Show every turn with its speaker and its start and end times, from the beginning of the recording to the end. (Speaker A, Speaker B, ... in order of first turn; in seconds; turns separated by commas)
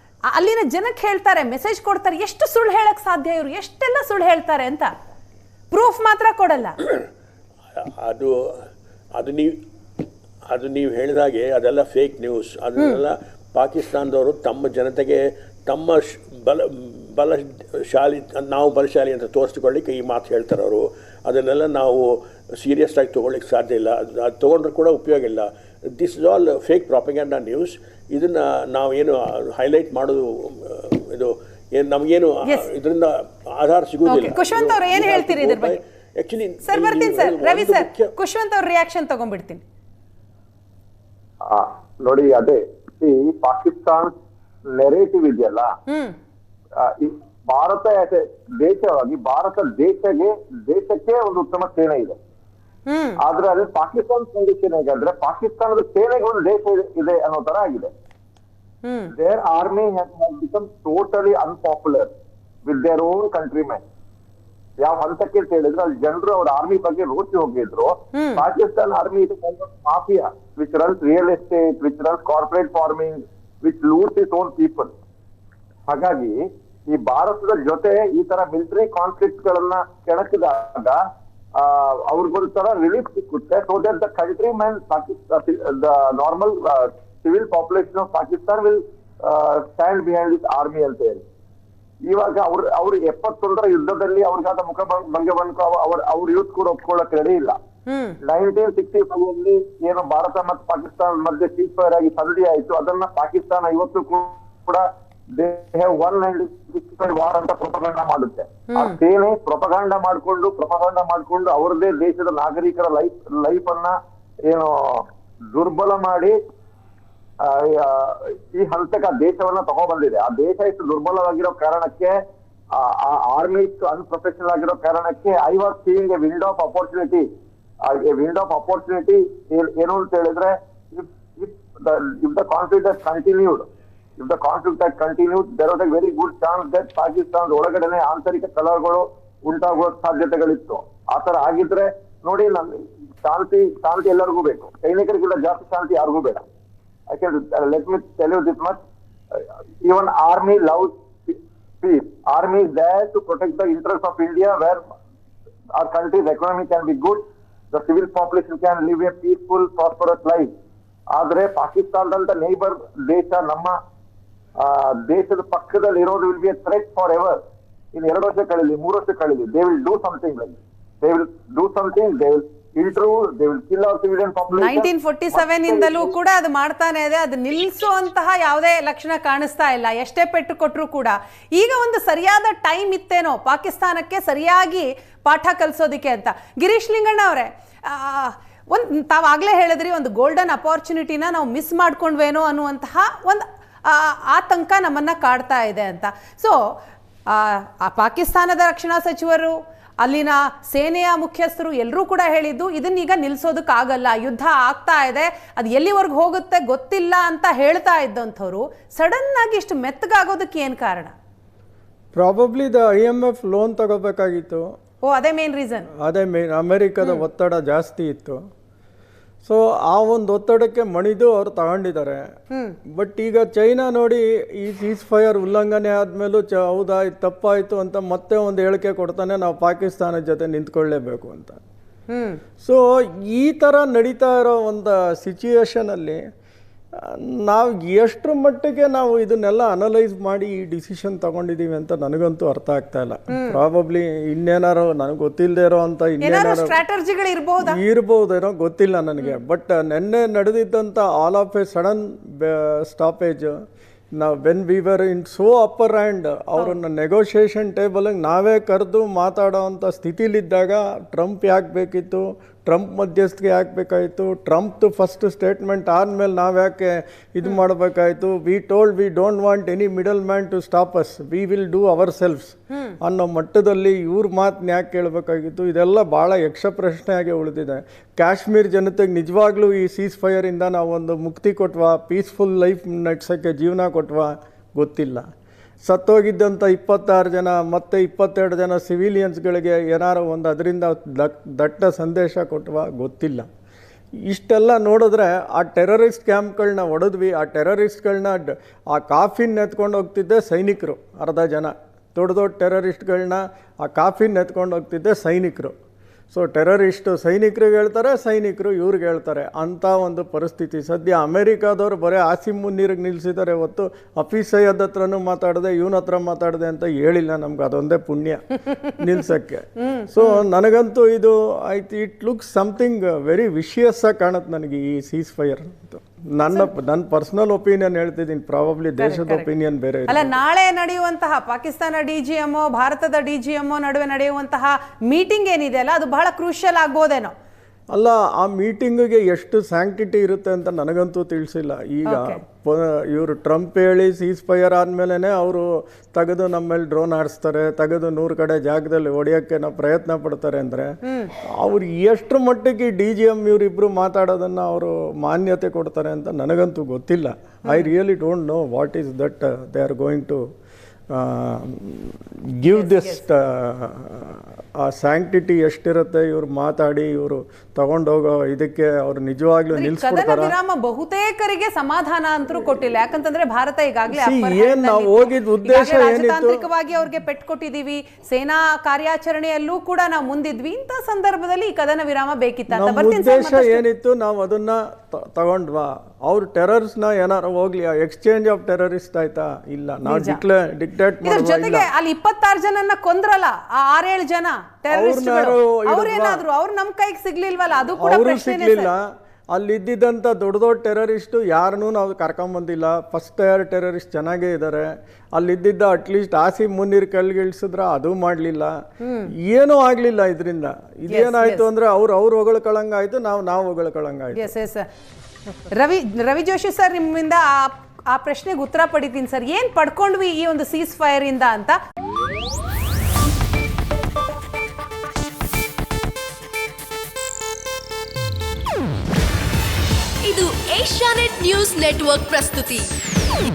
Speaker A: 0.3-4.9, Speaker A: 5.7-6.8, Speaker B: 7.8-9.6, Speaker B: 10.4-38.1, Speaker A: 34.1-35.8, Speaker A: 36.7-39.6, Speaker C: 41.4-44.1, Speaker C: 44.7-45.7, Speaker A: 45.9-46.1, Speaker C: 46.8-52.2, Speaker A: 52.9-53.2, Speaker C: 53.2-57.9, Speaker A: 58.8-59.1, Speaker C: 59.1-62.1, Speaker C: 62.6-63.8, Speaker C: 64.8-74.9, Speaker A: 68.1-68.4, Speaker C: 75.9-81.0, Speaker C: 81.5-91.2, Speaker C: 92.0-97.6, Speaker A: 97.9-98.2, Speaker C: 98.2-104.8, Speaker C: 105.3-113.9, Speaker A: 108.7-109.0, Speaker C: 114.5-116.3, Speaker C: 117.4-122.2, Speaker C: 122.7-127.2, Speaker C: 127.8-133.7, Speaker C: 134.2-146.4, Speaker C: 147.1-148.8, Speaker C: 149.3-154.8, Speaker C: 155.7-160.5, Speaker C: 161.1-163.8, Speaker C: 164.6-167.4, Speaker C: 167.9-176.1, Speaker A: 174.6-196.6, Speaker A: 197.3-211.1, Speaker D: 212.1-214.6, Speaker A: 215.0-215.9, Speaker D: 215.9-218.4, Speaker D: 219.4-222.3, Speaker A: 222.5-222.8, Speaker D: 222.9-231.6, Speaker A: 232.1-232.4, Speaker D: 232.6-236.2, Speaker D: 236.9-246.8, Speaker A: 243.3-243.6, Speaker A: 246.2-247.8, Speaker D: 247.6-253.5, Speaker D: 254.2-285.2, Speaker D: 285.8-293.4, Speaker D: 294.2-305.7, Speaker D: 306.3-330.3, Speaker A: 319.8-320.4, Speaker A: 329.0-329.5, Speaker A: 330.1-337.3, Speaker D: 337.9-351.0, Speaker A: 342.1-342.4, Speaker A: 351.1-351.3, Speaker D: 351.5-360.4, Speaker D: 361.1-370.5, Speaker A: 362.7-363.2, Speaker A: 369.7-383.8, Speaker D: 374.1-376.6, Speaker D: 382.7-391.9, Speaker A: 390.0-390.4, Speaker A: 391.2-398.9, Speaker D: 394.9-396.4, Speaker D: 397.9-408.7, Speaker A: 409.0-409.3, Speaker D: 409.4-414.5, Speaker A: 411.1-411.6, Speaker A: 414.3-414.9, Speaker A: 415.7-421.8, Speaker E: 430.2-432.9